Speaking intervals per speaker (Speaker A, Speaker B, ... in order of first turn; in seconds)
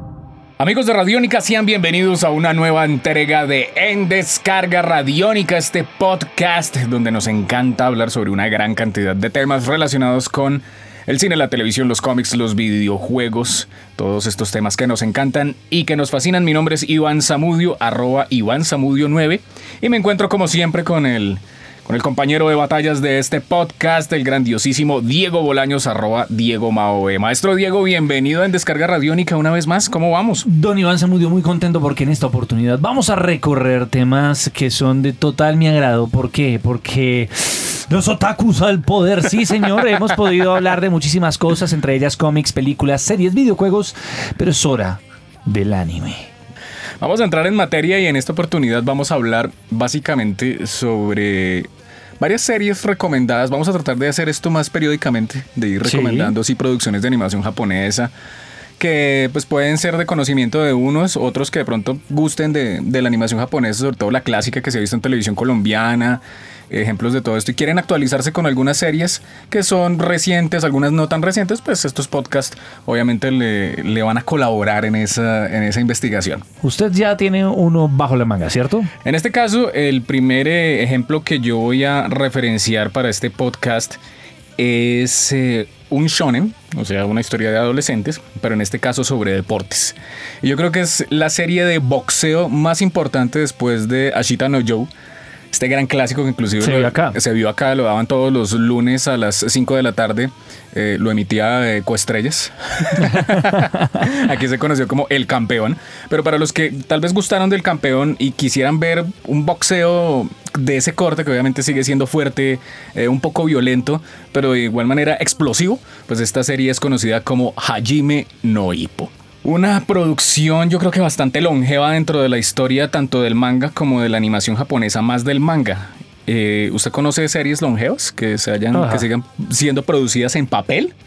Speaker A: 0.6-30.4, 47.0-51.7, 52.2-58.1, 58.8-76.4, 79.0-84.0, 84.6-94.9, 95.5-130.9
Speaker B: 30.4-46.3, 55.8-56.3, 76.6-78.9, 96.6-97.2, 103.1-103.7, 128.7-129.1